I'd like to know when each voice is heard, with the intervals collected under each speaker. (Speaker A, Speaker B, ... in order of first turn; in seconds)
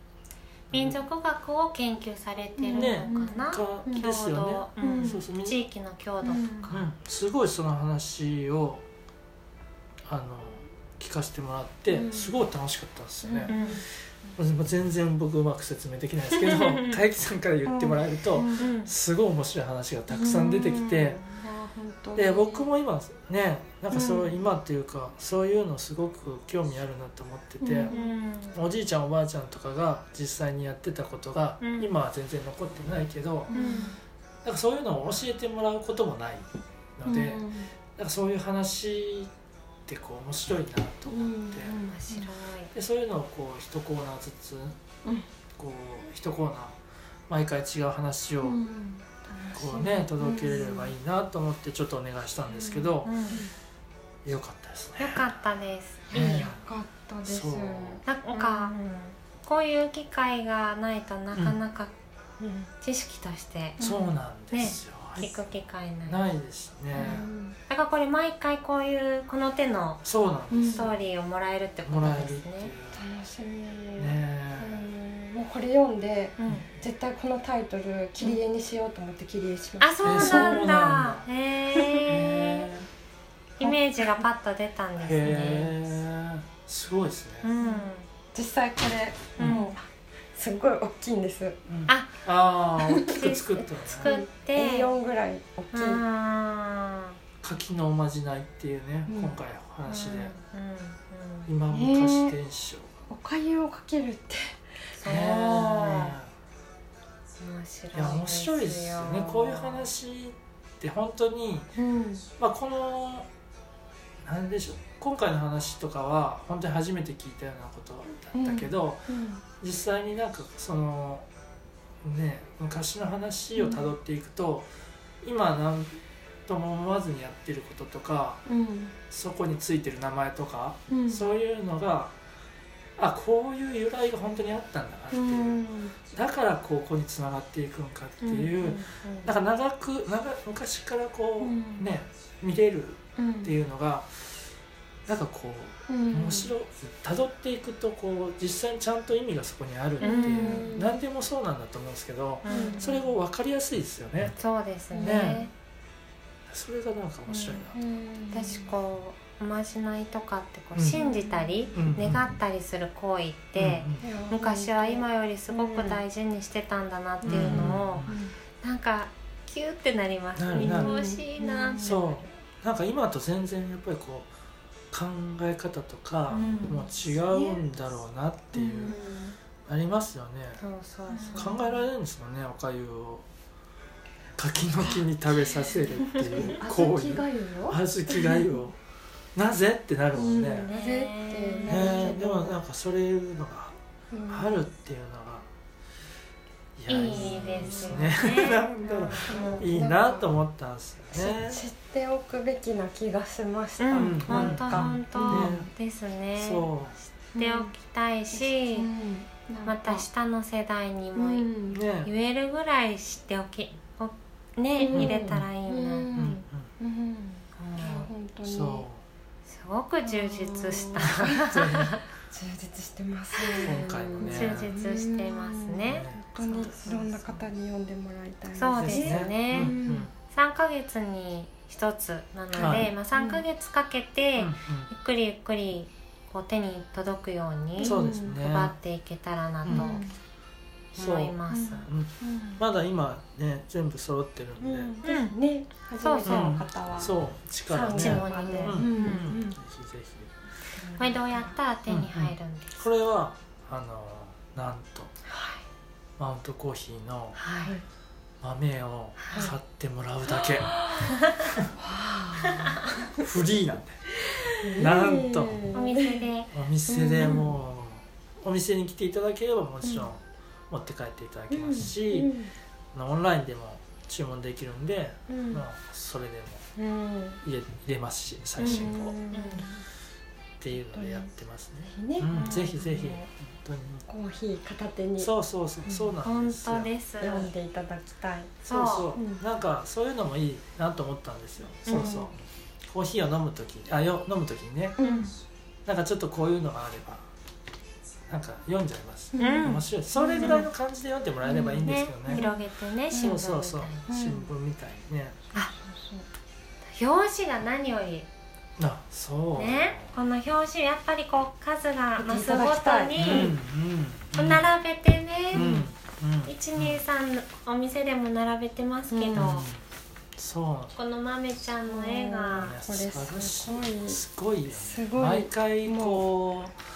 Speaker A: 0.7-1.0, 2.7-5.6, 6.7-8.8, 10.1-13.6, 14.3-21.2, 22.1-27.9, 28.5-33.5, 34.4-39.3, 39.9-41.8, 42.7-44.8, 45.6-46.8, 47.3-48.6, 49.5-53.1, 54.2-55.3, 56.1-56.6, 57.2-58.0, 63.8-65.3, 66.1-67.2, 70.0-70.9, 71.8-73.0, 74.0-74.8, 80.0-81.3, 81.8-82.9, 85.0-87.5, 89.4-89.7, 91.7-94.1, 97.4-100.3, 101.5-102.9, 105.0-106.3, 107.9-111.7, 112.4-113.3, 114.2-121.2, 122.0-124.7, 125.2-128.4, 129.1-132.1, 133.0-144.4, 145.1-154.4, 154.9-155.4, 156.5-157.8, 161.7-162.3, 163.6-164.0, 167.2-168.2, 170.4-170.9, 171.8-174.3, 174.9-179.0, 179.7-180.6, 181.3-183.2, 184.4-188.8, 189.3-190.7, 191.7-193.8, 194.3-195.5, 196.8-201.6, 203.9-205.7, 206.4-207.0, 211.7-212.1, 214.9-215.5, 216.1-216.7, 218.4-219.0, 221.0-222.0, 223.6-224.7, 225.8-226.2, 228.8-230.1, 232.6-232.9, 234.4-234.9, 237.8-238.7, 239.6-240.0, 240.9-241.3, 241.8-244.9, 246.2-250.3, 251.9-255.2, 256.2-257.4, 258.4-260.9, 263.2-264.1, 264.7-265.7, 266.5-272.3, 272.9-276.7, 277.4-279.2, 280.6-284.1, 285.2-286.9, 288.7-292.3, 292.9-295.0, 295.9-297.2, 298.3-302.5, 303.1-305.4, 308.8-310.1, 313.2-314.7, 315.5-317.0, 319.3-319.8, 320.4-320.9, 322.6-326.8
Speaker B: 0.7-6.9, 13.5-13.8, 16.4-17.0, 18.6-18.9, 27.9-28.6, 31.6-31.9, 33.5-34.0, 41.8-42.7, 53.0-53.4, 55.0-56.4, 58.0-61.9, 62.8-63.8, 64.5-66.2, 67.0-70.0, 70.7-72.7, 76.4-76.7, 79.8-82.7, 83.6-85.7, 87.4-88.1, 89.4-89.8, 91.9-92.1, 93.1-94.9, 95.7-97.2, 99.8-101.5, 105.0-106.1, 107.4-109.9, 138.2-139.3, 150.0-150.7, 152.4-153.1, 154.4-155.5, 157.3-157.7, 158.3-172.2, 176.3-176.9, 180.6-181.6, 190.3-192.2, 196.9-199.7, 203.8-208.9, 209.6-211.5, 212.0-216.1, 217.6-218.1, 219.5-222.0, 223.3-227.4, 228.5-229.8, 230.3-240.0, 240.9-241.9, 245.0-245.3, 246.0-246.6, 247.9-249.4, 250.9-252.8, 257.4-257.8, 259.2-259.5, 261.1-261.5, 262.4-262.8, 265.7-266.5, 278.6-279.7, 282.3-282.7, 286.2-287.5, 288.6-289.1, 295.0-295.4, 299.4-300.7, 301.8-304.1, 306.9-308.3, 309.5-313.5, 314.3-315.8, 316.4-319.7, 320.9-322.7
Speaker C: 2.6-4.0, 4.8-5.2, 6.2-6.7, 11.9-12.4, 13.2-13.8, 17.6-18.6, 20.1-22.7, 23.9-24.4, 27.6-28.1, 33.5-34.0, 37.0-37.7, 41.1-42.3, 48.4-50.9, 52.5-53.5, 56.1-58.8, 62.4-62.7, 63.8-64.1, 66.9-67.6, 70.5-70.9, 72.9-80.7, 83.6-84.2, 87.6-91.6, 92.8-93.2, 94.0-96.0, 99.1-99.3, 101.7-102.3, 103.1-104.7, 111.8-112.3, 118.3-119.4, 123.5-123.9, 128.4-128.9, 130.9-131.2, 135.1-136.0, 141.4-141.9, 143.2-143.5, 145.9-146.5, 150.0-151.0, 152.4-152.9, 154.9-155.5, 157.7-158.7, 160.9-161.8, 164.0-166.0, 167.2-168.3, 170.5-172.0, 177.3-177.6, 178.5-179.3, 181.1-181.8, 186.4-188.4, 190.1-192.6, 194.1-194.5, 197.0-198.1, 199.2-200.3, 201.1-205.6, 207.3-207.7, 208.3-210.1, 211.2-211.8, 214.8-218.9, 220.0-221.5, 222.3-230.1, 232.5-233.4, 237.8-238.4, 239.7-240.1, 241.5-242.6, 244.6-247.1, 247.7-249.6, 250.7-251.6, 255.3-255.6, 260.3-261.2, 261.8-263.3, 264.6-266.3, 266.9-267.6, 271.5-272.5, 275.3-275.6, 276.8-277.4, 278.6-279.8, 280.9-281.3, 281.9-283.3, 284.1-285.3, 285.8-286.1, 287.2-289.4, 291.9-292.3, 295.0-295.3, 299.3-300.7, 301.4-302.5, 304.1-304.5, 305.5-306.3, 312.2-313.6, 315.5-315.9, 319.1-319.5, 321.9-326.2